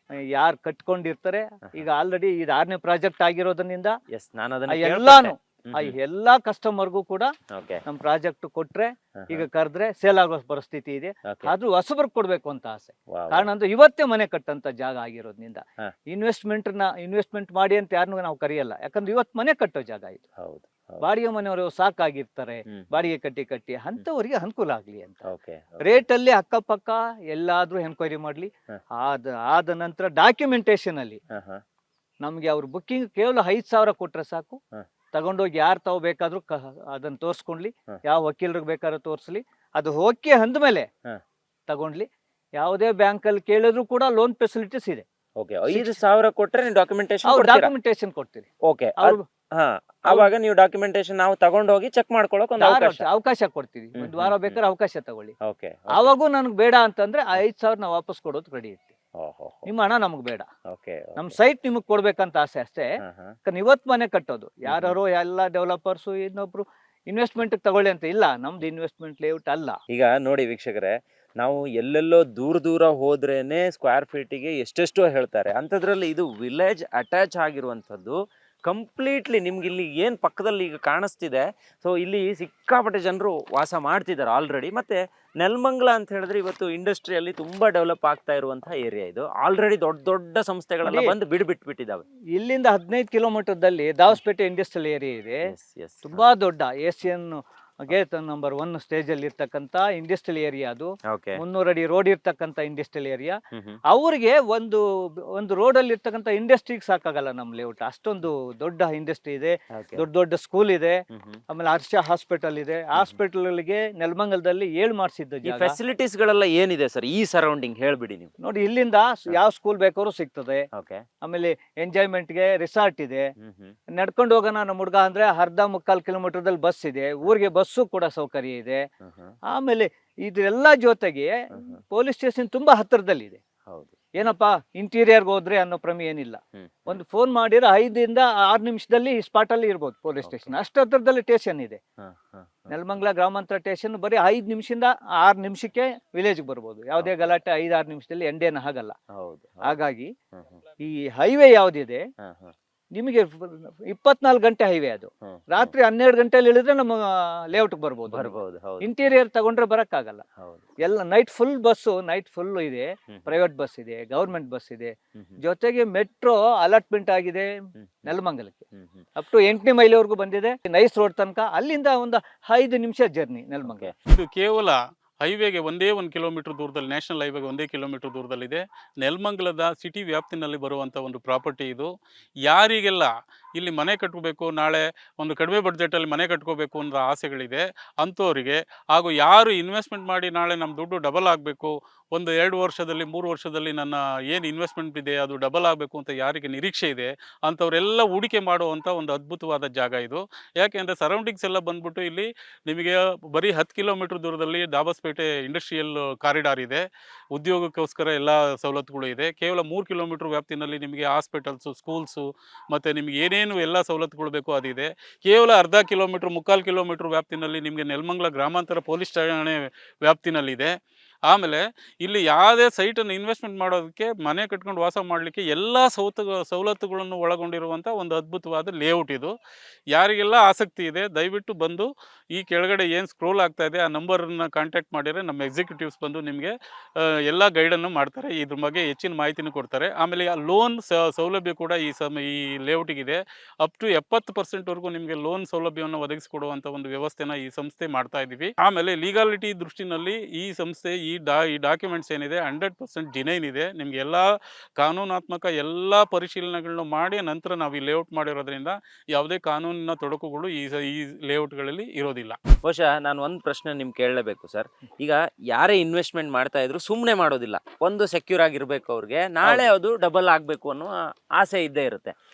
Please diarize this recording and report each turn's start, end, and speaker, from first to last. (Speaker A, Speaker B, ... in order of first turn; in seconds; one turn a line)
Speaker A: 0.3-4.0
Speaker B: 4.1-5.9
Speaker A: 4.7-7.3
Speaker B: 7.5-7.8
Speaker A: 7.8-20.2
Speaker B: 9.2-9.4
Speaker B: 11.3-11.5
Speaker B: 13.1-13.5
Speaker B: 20.4-21.0
Speaker A: 21.0-25.2
Speaker B: 22.7-23.1
Speaker B: 25.3-26.0
Speaker A: 25.8-31.2
Speaker B: 31.3-31.6
Speaker A: 32.2-34.6
Speaker A: 35.1-40.9
Speaker A: 41.7-42.0
Speaker A: 42.6-45.0
Speaker B: 45.4-47.7
Speaker A: 45.7-46.0
Speaker A: 47.2-48.5
Speaker B: 48.6-53.0
Speaker A: 52.6-55.3
Speaker B: 54.0-54.6
Speaker B: 55.4-56.1
Speaker A: 55.9-58.9
Speaker B: 59.2-59.7
Speaker A: 59.6-60.5
Speaker B: 60.7-61.3
Speaker A: 61.2-62.9
Speaker B: 63.0-63.3
Speaker A: 63.5-69.8
Speaker B: 64.7-65.0
Speaker B: 69.9-92.0
Speaker A: 90.8-91.1
Speaker A: 92.3-95.5
Speaker B: 95.5-96.2
Speaker A: 96.0-103.4
Speaker B: 101.1-101.4
Speaker B: 103.5-103.8
Speaker A: 103.9-104.8
Speaker A: 105.3-115.8
Speaker B: 109.7-110.0
Speaker B: 111.1-111.4
Speaker B: 115.4-118.3
Speaker A: 118.4-120.7
Speaker B: 120.7-121.0
Speaker A: 121.2-123.3
Speaker B: 123.4-123.7
Speaker A: 123.9-128.9
Speaker B: 129.0-129.3
Speaker A: 129.5-133.4
Speaker B: 133.7-134.3
Speaker A: 134.2-141.8
Speaker B: 136.6-137.0
Speaker B: 140.2-140.5
Speaker B: 142.0-142.7
Speaker A: 142.7-148.9
Speaker B: 147.0-147.4
Speaker B: 149.1-149.6
Speaker A: 149.6-150.1
Speaker B: 150.3-150.6
Speaker A: 150.8-152.0
Speaker B: 152.2-152.5
Speaker A: 152.9-160.2
Speaker B: 155.3-155.7
Speaker B: 158.1-159.1
Speaker B: 160.4-160.8
Speaker A: 160.8-167.5
Speaker B: 163.1-163.4
Speaker B: 167.8-168.1
Speaker A: 168.1-168.6
Speaker B: 168.7-169.0
Speaker A: 169.2-173.9
Speaker B: 173.7-173.9
Speaker C: 174.1-181.9
Speaker C: 182.4-206.8
Speaker C: 207.3-220.7
Speaker C: 221.3-229.3
Speaker C: 229.9-236.5
Speaker C: 237.3-254.2
Speaker C: 254.8-262.4
Speaker B: 262.6-272.1